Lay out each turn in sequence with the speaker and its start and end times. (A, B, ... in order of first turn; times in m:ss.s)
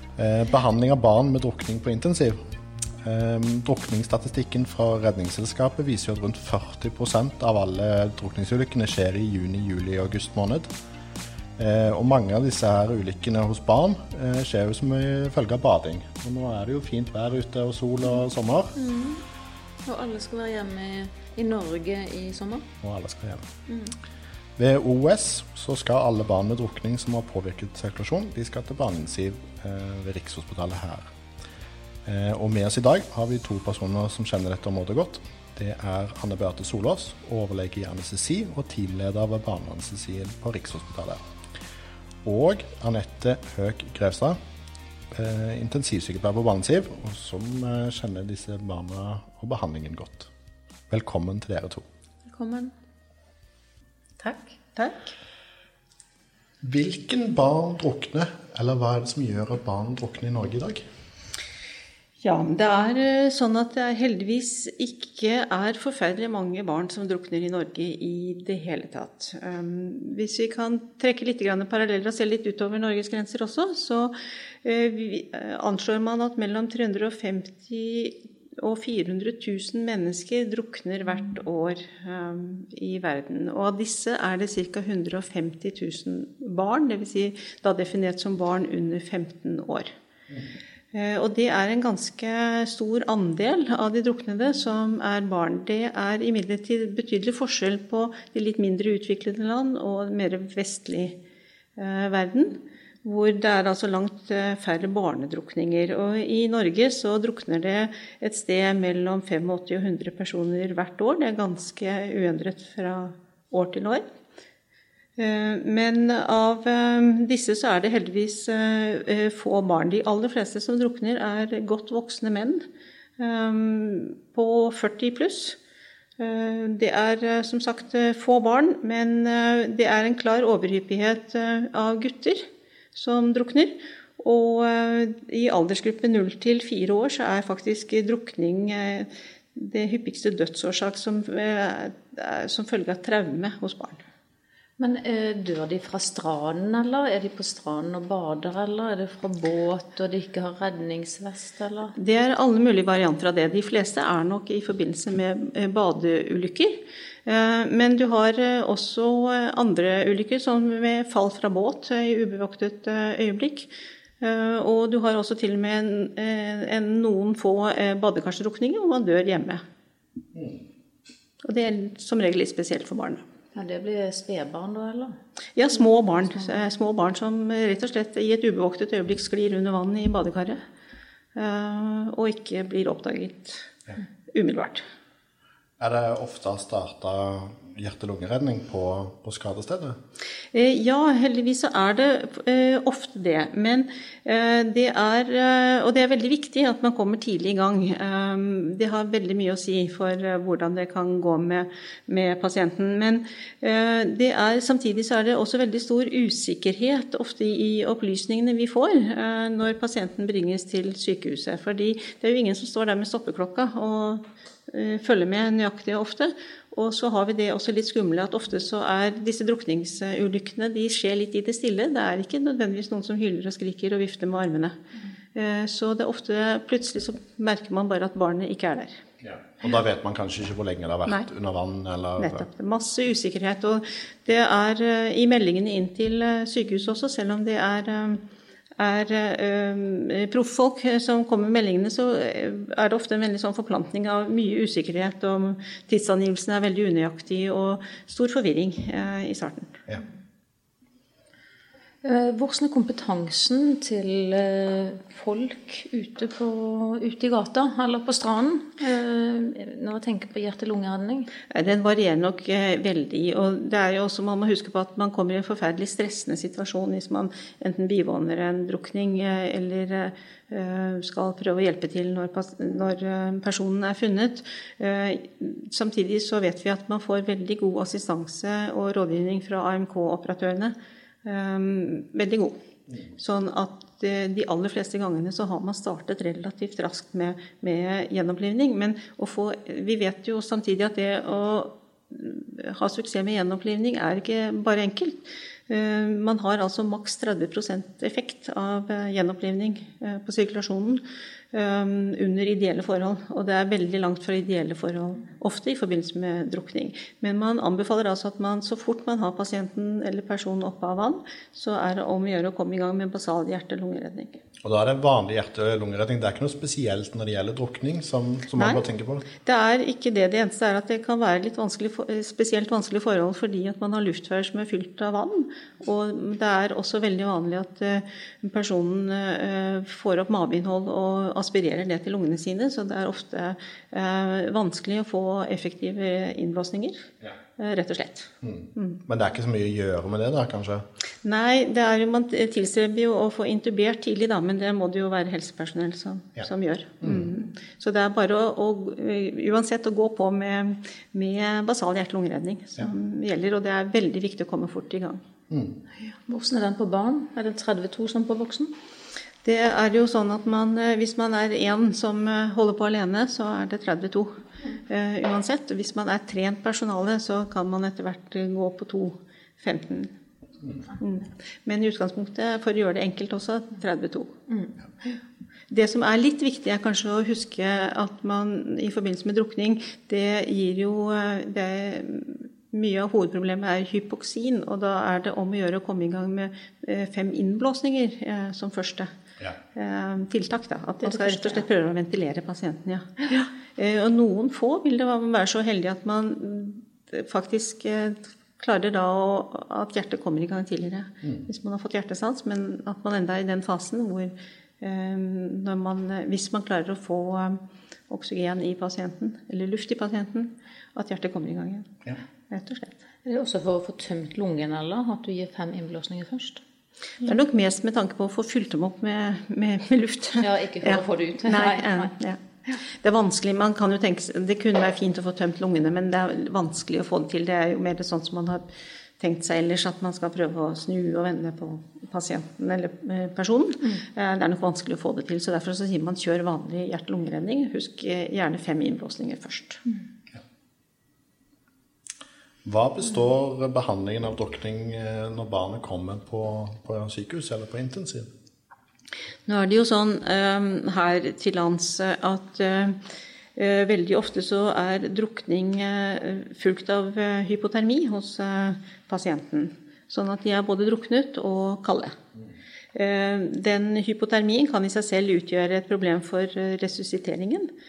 0:00.2-0:02.4 A
0:03.0-0:10.7 A
0:11.6-0:18.8 A
0:18.8-0:19.2 B
0:19.8-0:22.7 B
0:22.8-0:23.5 A
0:24.6-0:31.0 A
0:32.0-0:41.2 A
0:42.2-0:44.4 A
0:45.1-0:50.3 A
0:50.9-0:51.8 A
0:52.2-0:52.7 B
0:54.8-0:55.1 C
0:56.6-1:00.8 A
1:02.2-1:29.9 C
1:30.9-1:41.2 C
1:41.8-1:54.0 C
1:55.2-2:02.6 C
2:03.2-2:05.6 C
2:06.2-2:24.0 C
2:24.8-2:32.0 B
2:32.0-2:49.6 C
2:50.3-2:50.6 A
2:51.4-2:53.2 C
2:53.5-2:55.2 B
2:55.5-3:00.6 C
3:01.3-3:03.7 C
3:04.3-3:04.8 C
3:05.8-3:10.0 A
3:10.5-3:44.8 C
3:45.3-3:49.0 C
3:49.2-3:52.4 A
3:52.2-3:58.2 C
3:58.8-4:09.8 C
4:12.0-4:21.3 B
4:21.5-4:42.5 C
4:43.2-5:14.4 C
5:14.6-5:19.3 A
5:18.5-5:39.0 C
5:38.4-5:40.8 A
5:41.2-5:55.2 C
5:47.0-5:47.3 A
5:55.5-5:55.8 A
5:56.3-5:58.7 B
5:59.4-6:10.1 C
6:11.0-6:14.4 C
6:15.7-6:29.1 C
6:29.7-6:52.0 C
6:31.0-6:31.6 B
6:52.5-6:53.0 C
6:53.2-6:56.6 B
6:57.2-7:08.6 C
7:00.4-7:02.1 B
7:09.2-7:19.8 C
7:22.6-7:28.3 A
7:29.5-7:33.0 C
7:33.6-7:42.2 C
7:42.9-7:47.7 C